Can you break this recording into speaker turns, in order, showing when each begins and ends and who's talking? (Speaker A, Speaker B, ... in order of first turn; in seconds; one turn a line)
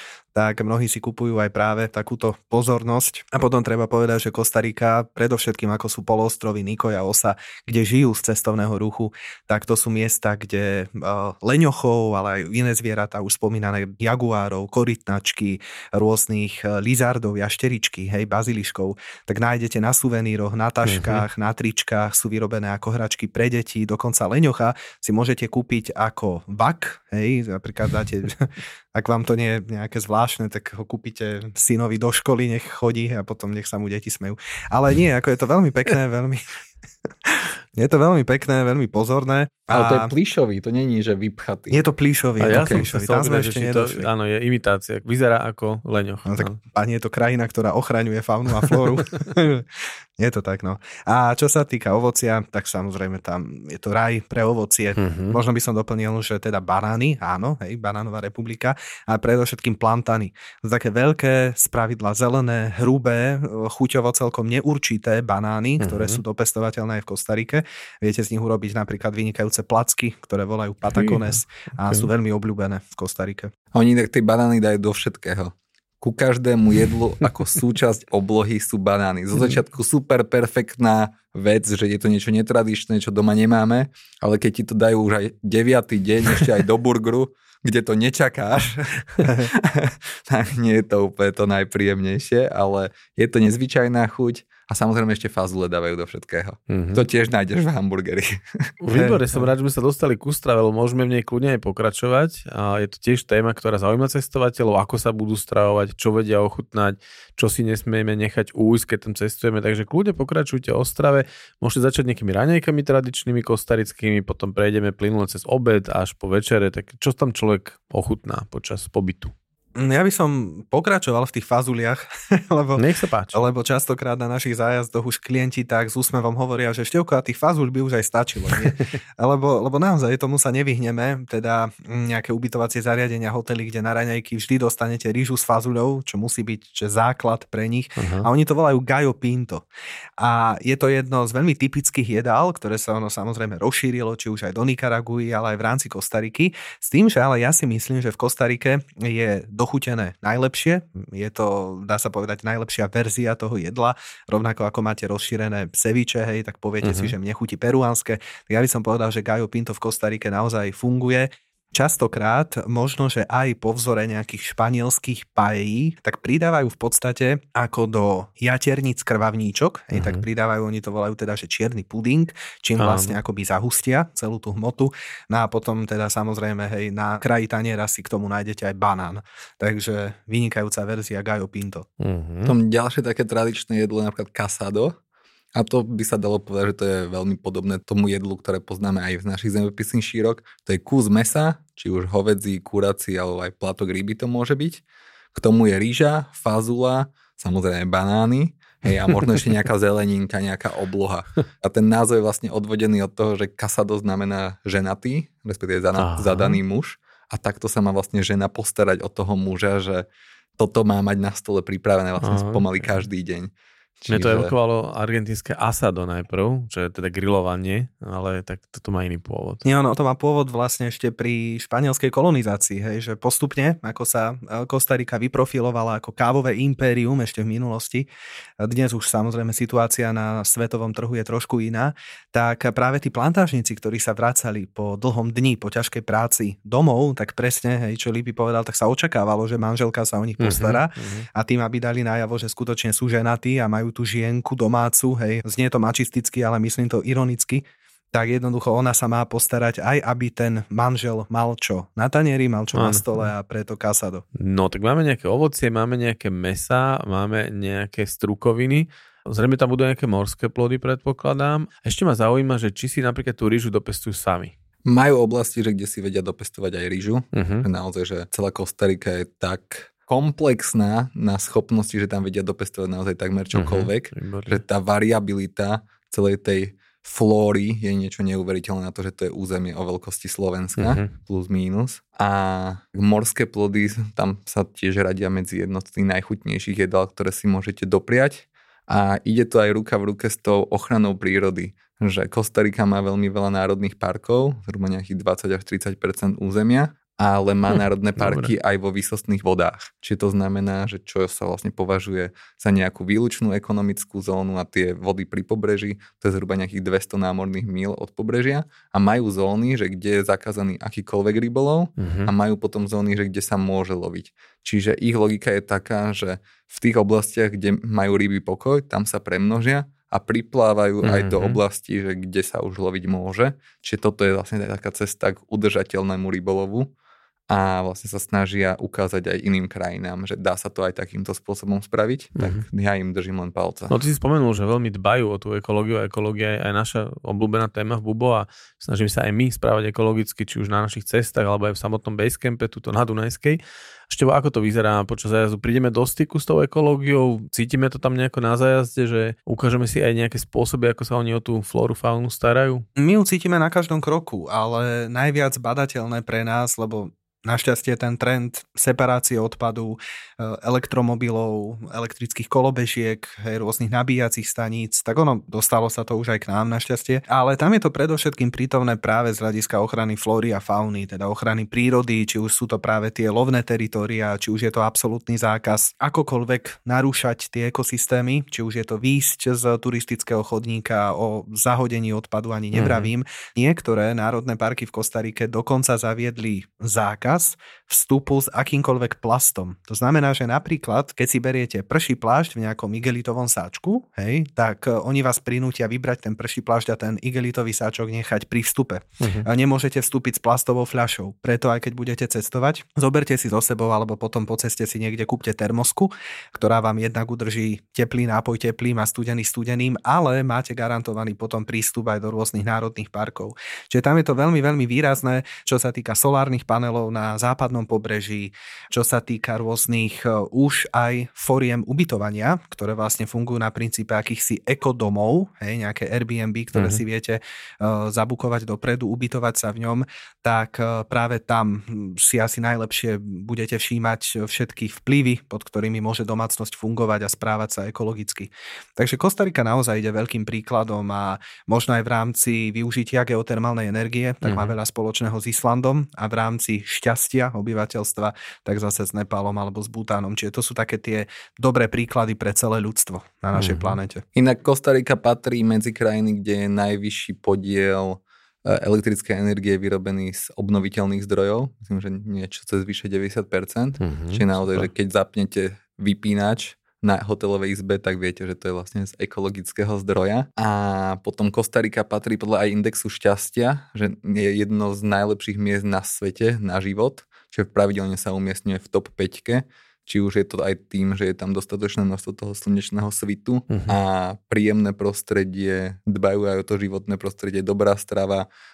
Speaker A: 0.3-36.5
Speaker B: 20.9-21.2
Speaker A: 37.7-40.1
Speaker C: 39.7-41.8
Speaker A: 41.7-44.1
Speaker B: 42.4-46.5
Speaker C: 42.4-42.9
Speaker A: 46.3-49.7
Speaker A: 50.2-73.5
Speaker B: 55.0-55.4
Speaker B: 65.8-66.2
Speaker B: 70.9-72.1
Speaker C: 73.7-98.7
Speaker B: 96.7-97.0
Speaker B: 98.8-119.3
Speaker A: 98.9-99.5
Speaker A: 119.8-139.7
Speaker B: 122.8-123.4
Speaker B: 138.0-138.3
Speaker A: 140.2-181.9
Speaker B: 156.8-157.2
Speaker B: 169.9-170.2
Speaker B: 172.8-173.2
Speaker B: 182.0-182.6
Speaker C: 182.4-184.9
Speaker C: 185.5-194.8
Speaker C: 195.3-210.1
Speaker B: 205.9-206.6
Speaker C: 210.6-214.5
Speaker B: 212.2-212.7
Speaker B: 214.1-219.6
Speaker A: 219.6-228.1
Speaker A: 228.6-254.2
Speaker B: 240.4-241.3
Speaker B: 252.7-253.3
Speaker B: 254.4-264.5
Speaker C: 264.9-326.9
Speaker B: 267.3-267.7
Speaker B: 273.5-274.6
Speaker B: 280.8-281.1
Speaker B: 297.8-298.5
Speaker B: 312.0-312.3
Speaker B: 321.0-321.6
Speaker C: 327.5-334.0
Speaker B: 332.4-332.6
Speaker B: 333.9-352.9
Speaker A: 353.0-454.2
Speaker B: 382.7-383.1
Speaker B: 399.2-399.5
Speaker B: 426.7-427.0
Speaker B: 444.4-444.7
Speaker B: 453.6-454.0
Speaker C: 454.4-488.5
Speaker B: 464.0-464.9
Speaker B: 483.7-484.0